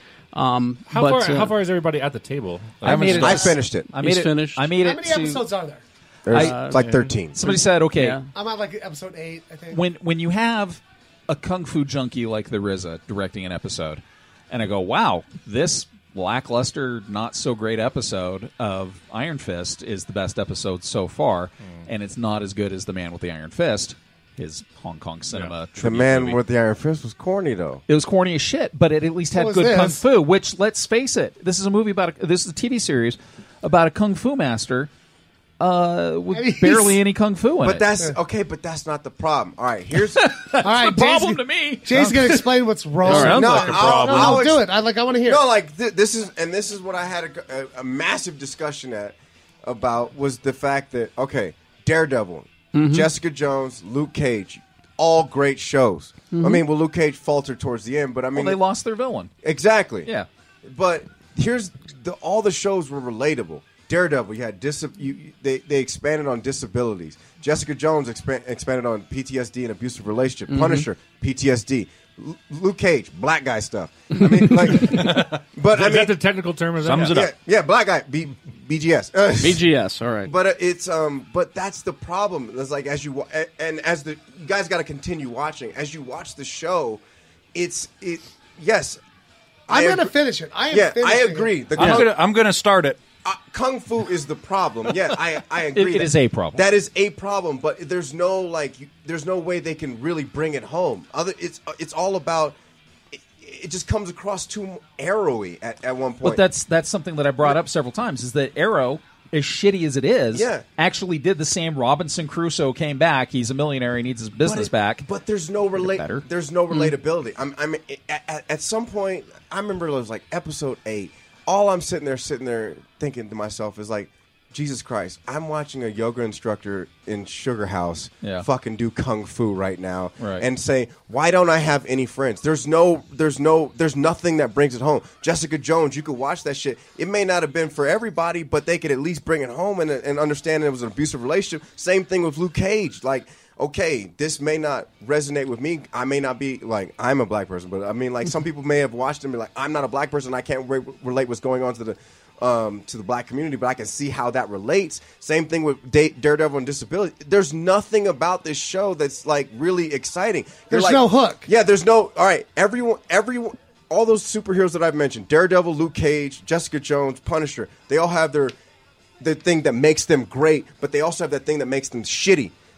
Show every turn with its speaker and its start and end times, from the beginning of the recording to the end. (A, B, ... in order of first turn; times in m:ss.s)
0:00.3-0:01.6 A
0:00.9-0:03.1 B
0:02.8-0:05.5 C
0:02.8-0:03.9 D
0:02.8-0:04.7 A
0:04.8-0:05.8 E
0:06.2-0:07.4 D
0:06.3-0:08.2 C
0:06.3-0:08.2 A
0:08.3-0:09.8 E
0:09.7-0:26.4 C
0:25.3-0:25.5 B
0:25.8-0:27.8 D
0:27.9-0:34.9 C
0:29.3-0:30.0 E
0:35.6-0:37.9 C
0:36.3-0:37.0 E
0:37.6-0:40.3 D
0:40.1-0:42.6 C
0:40.6-0:45.4 E
0:43.0-0:43.5 A
0:43.1-0:44.7 D
0:43.3-0:44.2 B
0:45.2-0:58.6 D
0:52.7-0:53.1 A
0:56.3-0:56.6 A
0:58.3-0:59.3 C
0:59.4-1:00.1 D
1:00.6-1:16.2 D
1:10.5-1:10.8 A
1:14.2-1:14.5 A
1:14.9-1:15.3 F
1:15.2-1:17.2 B
1:16.8-1:17.3 F
1:17.1-1:19.6 D
1:19.4-1:20.3 A
1:20.2-1:27.0 D
1:27.5-1:29.0 D
1:29.7-1:30.1 D
1:29.7-1:32.1 E
1:30.7-1:32.2 D
1:31.8-1:33.0 F
1:33.2-1:42.6 D
1:35.7-1:36.6 C
1:43.1-1:46.4 D
1:46.2-1:55.0 C
1:50.3-1:50.6 D
1:54.4-2:48.6 D
1:55.8-1:56.2 C
2:10.2-2:10.4 C
2:40.7-2:41.5 E
2:49.2-2:52.5 D